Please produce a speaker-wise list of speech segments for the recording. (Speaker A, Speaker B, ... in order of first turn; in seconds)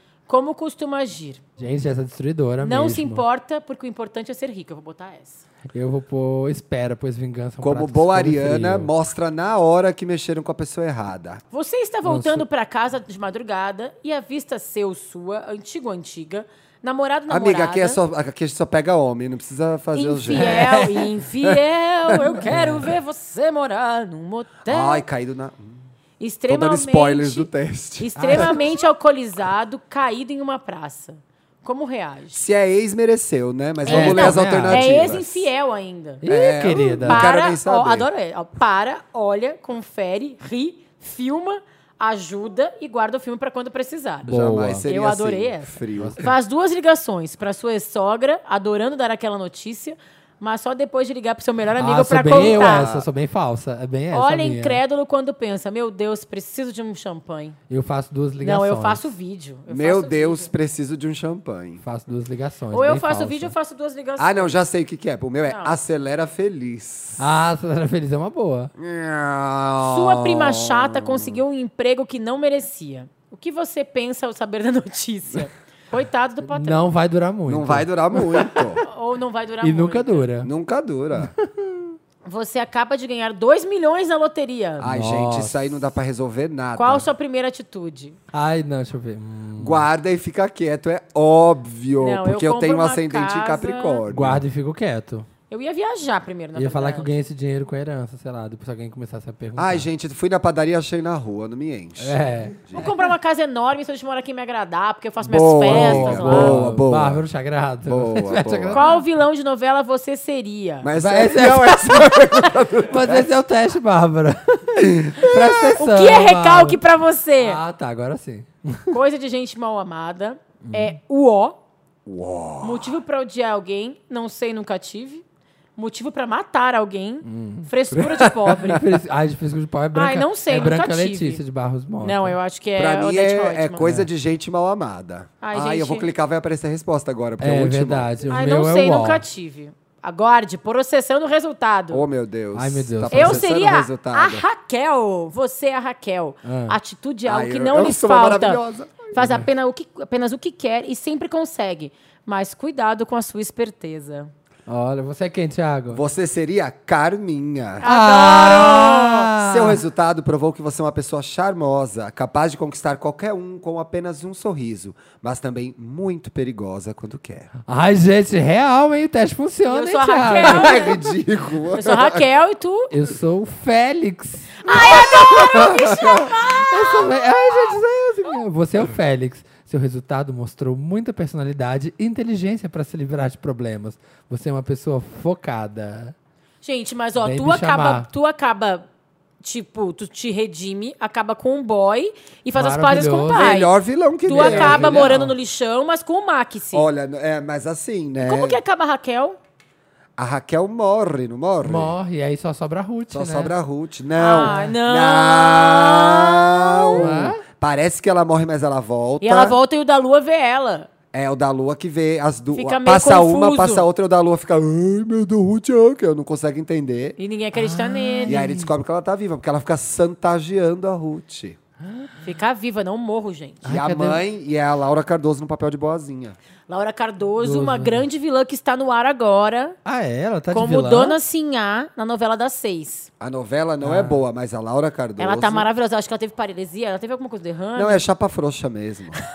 Speaker A: 0.3-1.4, 2.6-5.4, 11.5-18.0, 19.9-25.0, 26.2-32.4, 33.9-44.3, 44.9-52.9, 54.1-57.6, 58.4-60.5, 62.7-64.6, 65.5-65.8, 69.8-76.9, 78.8-80.3, 82.2-84.9, 86.8-88.2, 92.0-94.0, 95.5-97.2, 102.7-106.6, 108.7-110.9, 115.3-117.6, 118.9-121.6, 122.6-125.2, 125.8-128.9, 129.9-131.4, 132.0-133.8, 135.4-136.1, 138.3-142.0, 143.1-154.3, 157.8-159.3, 169.7-171.0, 171.7-172.9, 174.6-177.2, 186.6-188.9, 189.4-193.7, 194.3-196.9, 198.2-199.4, 204.2-207.1, 209.2-210.9, 212.5-213.8, 217.2-218.4, 222.2-223.7, 226.7-229.8, 230.5-233.1, 235.2-238.0
Speaker B: 1.6-3.2, 5.7-8.9, 12.1-12.4, 20.3-21.1, 22.5-22.9, 28.2-28.6, 33.9-35.2, 36.2-37.3, 44.2-44.9, 46.0-46.3, 51.8-54.8, 57.7-59.1, 61.8-63.5, 67.2-68.7, 76.5-78.8, 79.6-80.5, 81.2-81.9, 84.8-85.8, 88.3-89.8, 94.1-95.3, 96.6-99.8, 102.0-102.7, 105.7-109.0, 111.0-112.2, 112.8-116.8, 117.4-119.0, 120.7-121.0, 127.2-127.7, 128.7-132.4, 133.8-134.1, 137.4-139.2, 142.6-143.5, 146.4-146.8, 149.2-149.5, 154.7-156.0, 157.8-159.8, 167.7-170.8, 172.9-186.1, 187.2-188.1, 192.6-193.5, 194.3-195.3, 201.6-203.5, 204.4-204.7, 207.0-207.4, 217.5-218.7, 221.8-222.1, 223.6-224.2, 227.4-228.0, 229.8-231.2, 233.8-234.2
Speaker C: 7.6-11.4, 17.3-20.8, 24.7-25.8, 26.5-28.6, 32.3-35.5, 36.3-38.1, 44.2-46.2, 52.3-53.1, 59.7-61.8, 64.2-67.3, 68.8-71.4, 77.5-78.8, 80.4-81.3, 84.8-87.1, 89.6-94.4, 99.6-102.9, 105.2-107.2, 107.9-108.8, 110.8-113.3, 114.8-115.3, 122.1-123.0, 127.9-128.8, 132.8-138.1, 141.9-144.4, 147.3-149.3, 155.9-157.9, 159.4-167.5, 170.3-172.3, 175.1-176.3, 193.3-195.2, 196.7-198.6, 200.2-201.9, 203.1-209.6, 211.1-217.2, 218.3-221.6, 223.7-226.4, 233.2-235.7, 237.8-239.2